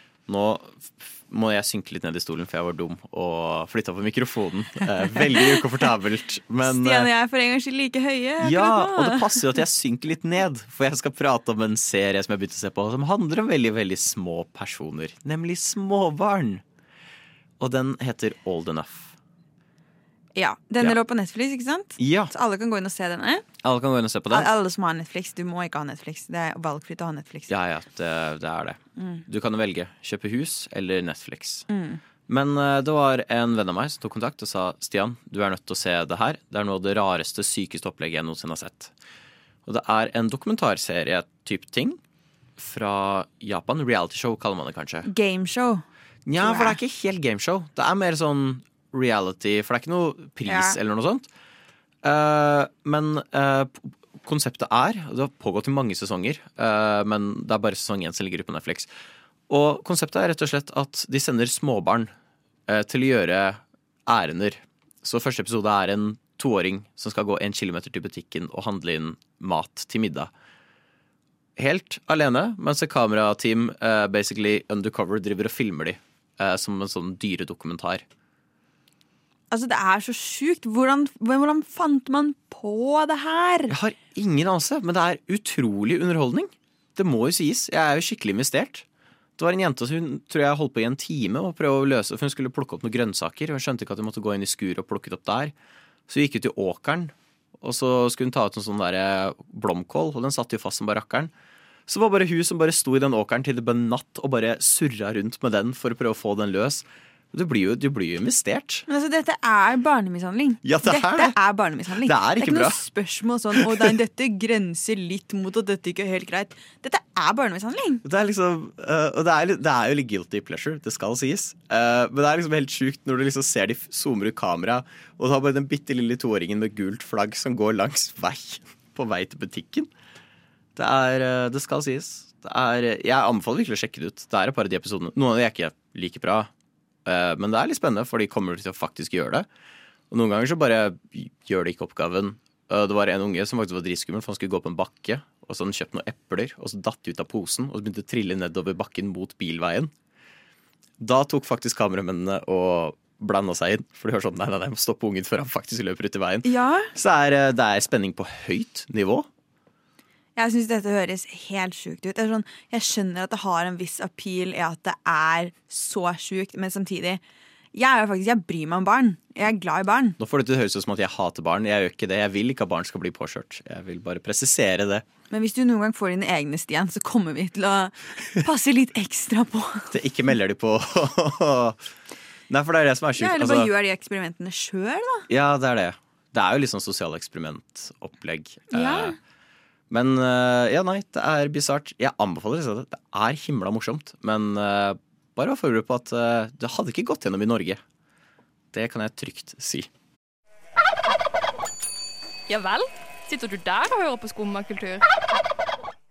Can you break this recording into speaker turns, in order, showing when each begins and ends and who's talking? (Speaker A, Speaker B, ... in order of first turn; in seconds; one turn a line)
Speaker A: 0.3-7.1
Speaker B: 6.6-9.4
Speaker A: 8.4-16.6
Speaker A: 17.6-19.1
Speaker B: 20.4-23.4
Speaker A: 22.0-22.3
Speaker A: 23.6-24.5
Speaker B: 24.3-27.5
Speaker A: 27.5-31.7
Speaker B: 29.0-29.2
Speaker B: 31.7-32.0
Speaker A: 32.3-38.9
Speaker A: 39.7-42.0
Speaker A: 42.6-45.1
Speaker B: 45.1-45.8
Speaker A: 46.3-51.3
Speaker B: 46.4-46.8
Speaker B: 50.5-50.8
Speaker A: 52.0-58.9
Speaker A: 59.5-62.1
Speaker A: 62.7-70.3
Speaker A: 71.6-78.0
Speaker B: 79.5-83.7
Speaker A: 83.7-88.8
Speaker A: 89.4-95.5
Speaker A: 96.1-101.3
Speaker A: 101.9-108.8
Speaker B: 108.9-118.0
Speaker A: 110.6-111.4
Speaker A: 112.0-112.8
Speaker A: 113.5-113.9
Speaker A: 118.0-129.9
Speaker A: 130.8-136.5
Speaker A: 137.1-139.5
Speaker A: 140.1-149.9
Speaker A: 151.0-159.3
Speaker B: 156.4-156.9
Speaker B: 160.4-167.2
Speaker B: 167.7-170.2
Speaker A: 170.2-175.0
Speaker B: 175.3-179.9
Speaker A: 179.9-181.8
Speaker A: 182.5-183.7
Speaker B: 183.2-185.3
Speaker A: 185.3-189.2
Speaker B: 188.7-189.2
Speaker A: 189.9-197.8
Speaker A: 198.7-199.9
Speaker C: 202.5-205.0